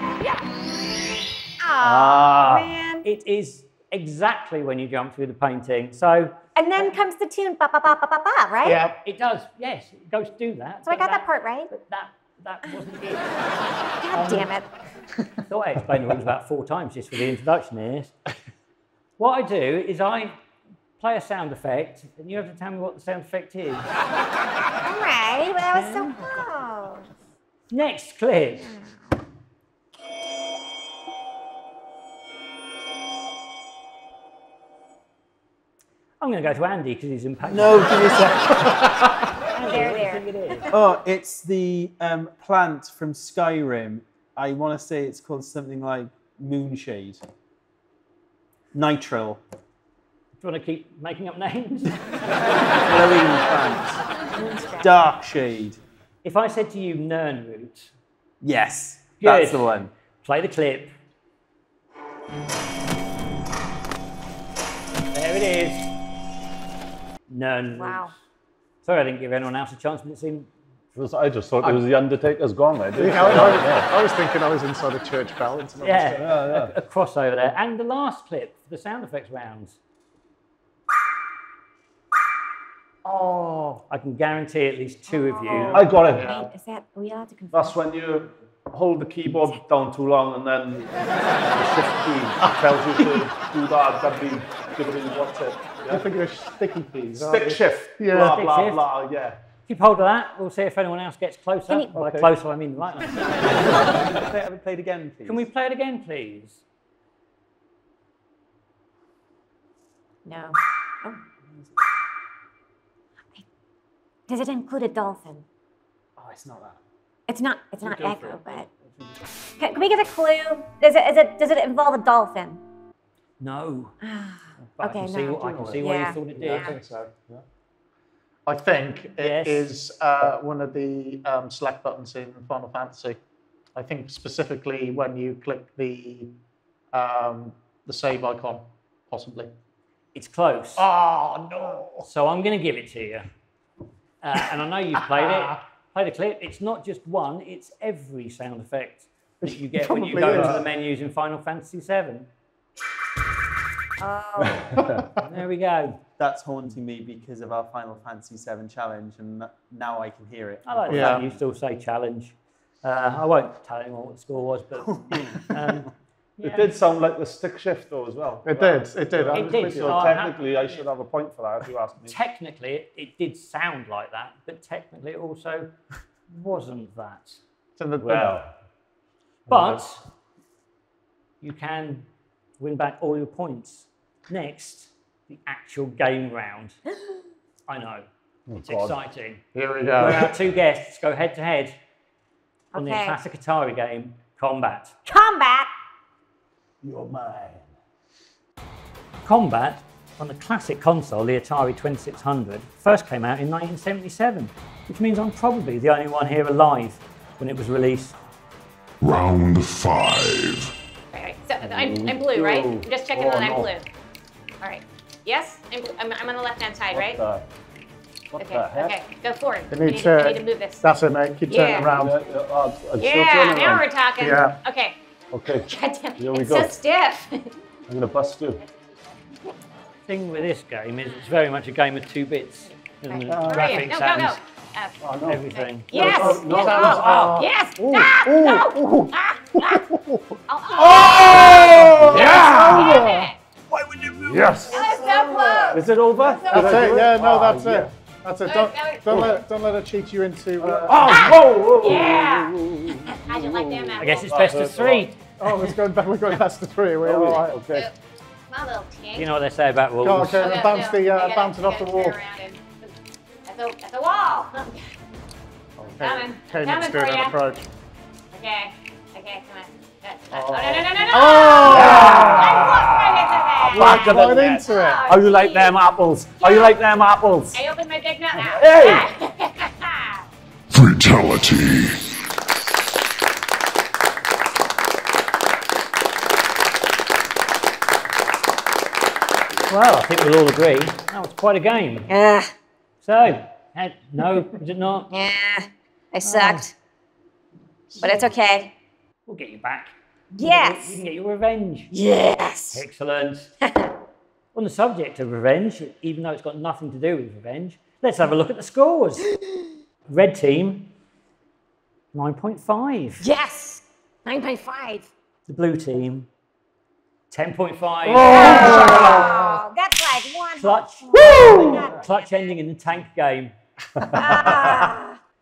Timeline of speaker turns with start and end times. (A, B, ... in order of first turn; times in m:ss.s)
0:01.6-0:03.0 A
0:01.8-0:02.7 B
0:03.0-0:06.4 C
0:06.6-0:08.8 A
0:08.6-0:09.0 D
0:09.0-0:13.3 C
0:10.8-0:11.7 A
0:14.0-0:14.7 A
0:14.1-0:14.5 C
0:15.4-0:18.1 C
0:19.2-0:20.4 C
0:21.0-0:23.9 C
0:24.8-0:27.1 A
0:25.7-0:26.4 C
0:27.7-0:28.7 C
0:28.6-0:29.1 A
0:36.2-0:38.3 C
0:37.5-0:38.6 E
0:39.6-0:40.7 C
0:39.6-0:40.7 A
0:40.7-0:47.2 E
0:48.7-0:49.4 E
0:50.4-0:52.2 C
0:52.8-0:54.0 E
0:54.3-0:54.9 A
0:54.8-0:55.8 E
0:56.2-0:57.9 C
0:58.4-0:59.9 E
0:59.2-1:01.0 C
1:05.1-1:05.9 C
1:07.3-1:08.1 C
1:07.8-1:08.1 A
1:08.8-1:10.5 C
1:11.0-1:13.9 B
1:13.0-1:16.3 D
1:15.8-1:19.8 C
1:16.2-1:16.7 B
1:23.0-1:23.8 D
1:23.9-1:25.8 C
1:25.1-1:27.8 A
1:25.5-1:26.5 D
1:25.7-1:26.4 B
1:27.5-1:36.0 B
1:32.4-1:33.2 D
1:35.9-1:38.4 D
1:37.1-1:39.4 B
1:38.1-1:38.9 C
1:39.7-1:43.1 C
1:41.9-1:42.3 B
1:43.9-1:45.5 E
1:45.2-1:46.6 C
1:50.2-1:51.2 A
1:54.3-1:55.4 A
1:56.2-1:56.8 E
1:57.3-1:58.7 A
1:57.8-1:59.2 E
1:59.6-2:02.6 A
2:03.4-2:04.0 C
2:04.0-2:06.7 A
2:04.8-2:06.8 C
2:05.4-2:07.1 D
2:08.5-2:13.2 D
2:09.2-2:09.7 C
2:13.8-2:16.3 D
2:16.9-2:19.5 D
2:20.1-2:20.8 C
2:20.8-2:22.1 D
2:22.0-2:23.3 C
2:24.2-2:32.3 C
2:25.1-2:25.6 D
2:29.4-2:30.7 D
2:30.3-2:30.6 B
2:34.0-2:34.7 A
2:34.4-2:35.0 B
2:35.2-2:36.0 C
2:36.2-2:41.4 E
2:40.6-2:46.7 C
2:40.9-2:41.3 D
2:46.4-2:52.2 B
2:48.4-2:50.2 D
2:49.3-2:50.8 C
2:52.1-2:55.8 C
2:56.3-2:57.4 C
2:57.8-2:58.4 D
2:58.0-2:58.5 B
2:59.5-2:59.8 B
2:59.5-3:00.1 C
3:01.4-3:02.1 C
3:02.6-3:06.8 C
3:07.7-3:08.1 C
3:08.5-3:09.0 B
3:08.6-3:09.4 C
3:09.6-3:10.3 D
3:10.0-3:11.8 C
3:12.7-3:13.2 A
3:12.7-3:15.0 C
3:15.1-3:15.7 A
3:16.8-3:17.7 B
3:19.2-3:28.2 C
3:29.0-3:30.7 F
3:31.1-3:33.9 G
3:31.6-3:33.7 B
3:34.6-3:37.2 G
3:36.9-3:37.4 B
3:38.3-3:39.0 B
3:38.4-3:40.8 G
3:39.7-3:42.2 D
3:41.5-3:41.9 G
3:41.8-3:43.9 B
3:43.0-3:45.0 G
3:44.2-3:44.6 D
3:45.3-3:46.8 B
3:45.5-3:47.6 G
3:47.9-3:48.6 B
3:50.1-3:54.4 C
3:53.3-3:54.0 B
3:53.3-3:59.8 G
3:55.0-3:57.4 B
3:55.3-3:56.0 C
3:55.9-3:58.6 D
3:57.9-3:59.1 B
3:59.6-4:00.2 D
4:00.5-4:03.4 G
4:00.8-4:03.1 B
4:01.2-4:03.3 D
4:03.7-4:05.0 B
4:04.6-4:07.0 G
4:04.7-4:05.8 D
4:05.7-4:07.9 B
4:06.5-4:11.2 D
4:08.5-4:09.2 G
4:10.6-4:15.1 B
4:11.0-4:14.7 G
4:14.0-4:15.2 C
4:15.4-4:17.8 D
4:17.0-4:17.9 B
4:18.5-4:19.3 G
4:19.2-4:20.4 C
4:20.0-4:22.2 D
4:20.4-4:22.9 G
4:23.5-4:24.9 G
4:25.8-4:27.6 D
4:26.0-4:27.4 G
4:28.3-4:35.8 G
4:30.3-4:32.8 D
4:31.7-4:37.6 B
4:33.7-4:35.1 D
4:36.4-4:36.8 G
4:37.5-4:40.3 G
4:38.3-4:39.1 B
4:40.7-4:42.0 F
4:49.7-4:52.1 C
4:52.1-4:52.5 A
4:53.0-4:55.1 C
4:55.1-4:56.7 A
4:56.2-4:56.6 C
4:58.0-4:58.7 A
4:59.3-5:02.0 C
5:00.3-5:01.0 A
5:01.9-5:02.8 A
5:02.7-5:03.5 C
5:03.6-5:03.9 A
5:04.5-5:09.3 C
5:10.1-5:10.9 C
5:12.1-5:13.2 C
5:13.2-5:15.1 A
5:15.5-5:16.3 C
5:17.3-5:19.3 C
5:18.1-5:22.4 A
5:18.4-5:19.0 D
5:20.6-5:23.5 C
5:21.4-5:21.8 B
5:24.0-5:24.6 B
5:24.1-5:25.2 A